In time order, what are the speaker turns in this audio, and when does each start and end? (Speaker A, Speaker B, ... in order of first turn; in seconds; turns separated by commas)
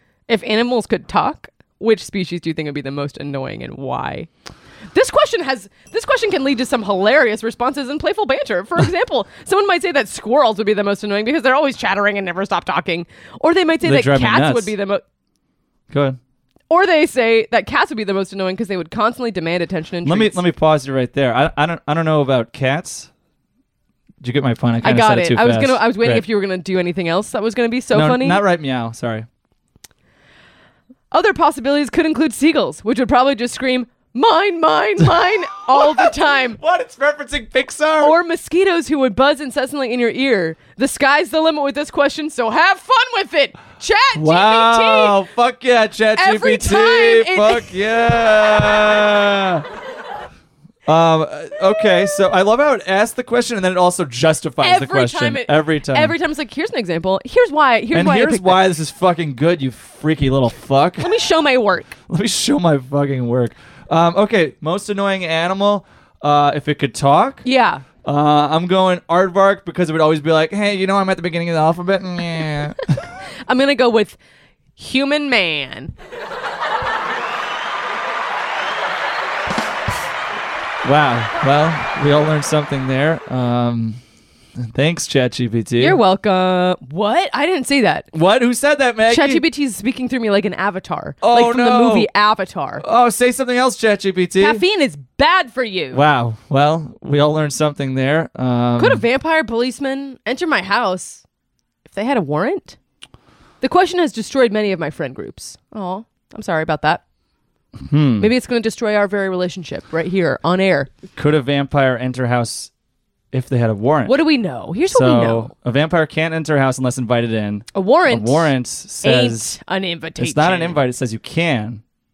Speaker A: 0.3-4.3, Speaker A: 4.9-15.0, Speaker B: 13.8-14.7, Speaker B: 15.9-16.2, Speaker A: 16.7-20.4, Speaker B: 20.0-23.1, Speaker B: 24.2-26.2, Speaker A: 24.8-28.4, Speaker B: 27.9-29.3, Speaker A: 31.1-36.6, Speaker B: 35.7-38.1, Speaker A: 38.0-45.2, Speaker B: 44.1-49.6, Speaker A: 46.1-47.8, Speaker B: 50.9-56.1, Speaker A: 54.6-58.6, Speaker B: 57.9-61.1, Speaker A: 61.0-62.0, Speaker B: 62.1-67.4, Speaker A: 67.4-67.8, Speaker B: 68.0-73.0, Speaker A: 73.5-74.2, Speaker A: 74.8-75.9, Speaker B: 80.8-84.0, Speaker B: 84.6-86.0, Speaker A: 85.8-88.1, Speaker B: 88.1-89.4, Speaker A: 89.0-92.8, Speaker B: 91.2-92.1, Speaker B: 92.8-94.6, Speaker A: 94.4-96.0, Speaker B: 95.9-99.0, Speaker A: 98.8-101.2, Speaker A: 101.8-102.8, Speaker A: 103.6-107.0, Speaker B: 107.8-108.3, Speaker A: 108.2-110.9, Speaker B: 111.2-112.7, Speaker B: 113.3-114.2, Speaker A: 114.0-115.5, Speaker B: 114.9-119.6, Speaker A: 117.7-120.8, Speaker B: 120.2-121.8